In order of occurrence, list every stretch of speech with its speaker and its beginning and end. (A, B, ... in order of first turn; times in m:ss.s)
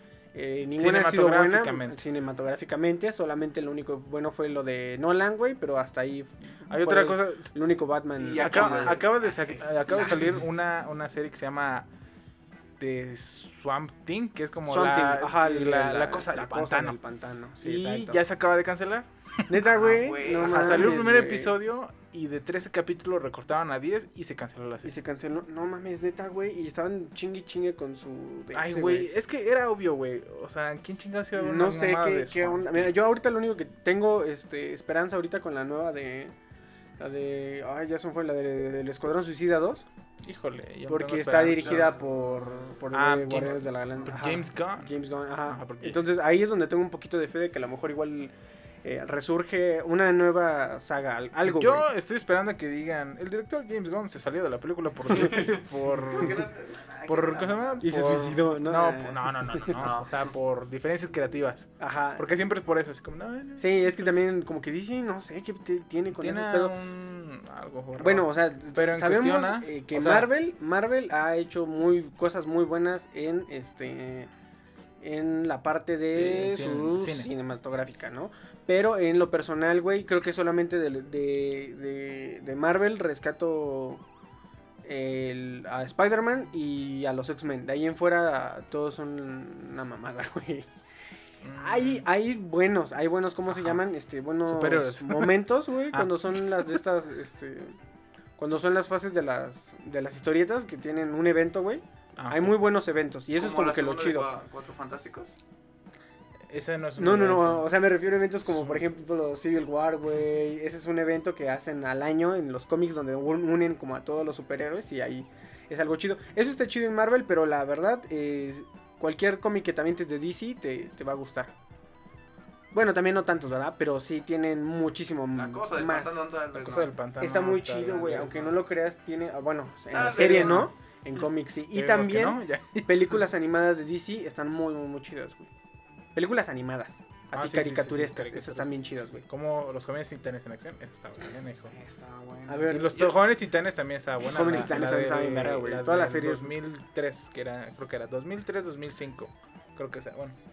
0:00.3-0:09.0 A
0:00.8-0:02.0 B
0:06.7-0:07.5 B
0:08.2-0:10.4 C
0:08.4-0:11.9 B
0:12.8-0:17.0 B
0:14.7-0:18.2 A
0:17.6-0:24.9 B
0:19.5-0:21.6 A
0:19.8-0:20.9 C
0:24.8-0:29.1 A
0:28.5-0:32.9 B
0:31.3-0:36.3 A
0:37.0-0:39.9 A
0:40.2-0:41.9 B
0:40.9-0:48.3 A
0:41.6-0:42.8 C
0:42.9-0:44.9 B
0:43.3-0:44.1 C
0:45.5-0:46.0 B
0:48.8-0:51.8 A
0:51.4-0:56.4 B
0:55.2-0:57.9 C
0:57.1-1:04.2 B
0:57.8-0:59.8 A
0:59.8-1:00.2 C
1:01.8-1:02.2 A
1:03.6-1:06.7 A
1:06.2-1:10.3 B
1:08.0-1:14.3 A
1:15.0-1:24.0 A
1:16.2-1:17.3 B
1:24.8-1:30.7 A
1:31.4-1:32.1 B
1:31.6-1:37.8 A
1:33.5-1:33.8 B
1:34.5-1:36.8 B
1:38.4-1:44.3 A
1:42.2-1:42.6 B
1:43.4-1:45.3 C
1:46.5-1:47.7 B
1:47.0-2:01.5 A
1:48.5-1:48.8 B
2:02.7-2:06.2 A
2:05.3-2:06.9 C
2:06.5-2:08.5 B
2:07.2-2:15.5 A
2:09.9-2:10.7 C
2:10.3-2:10.7 B
2:11.7-2:13.2 B
2:16.2-2:19.2 A
2:17.3-2:18.7 B
2:19.2-2:21.7 B
2:21.7-2:23.2 C
2:22.5-2:23.0 A
2:22.7-2:30.4 B
2:24.2-2:26.6 A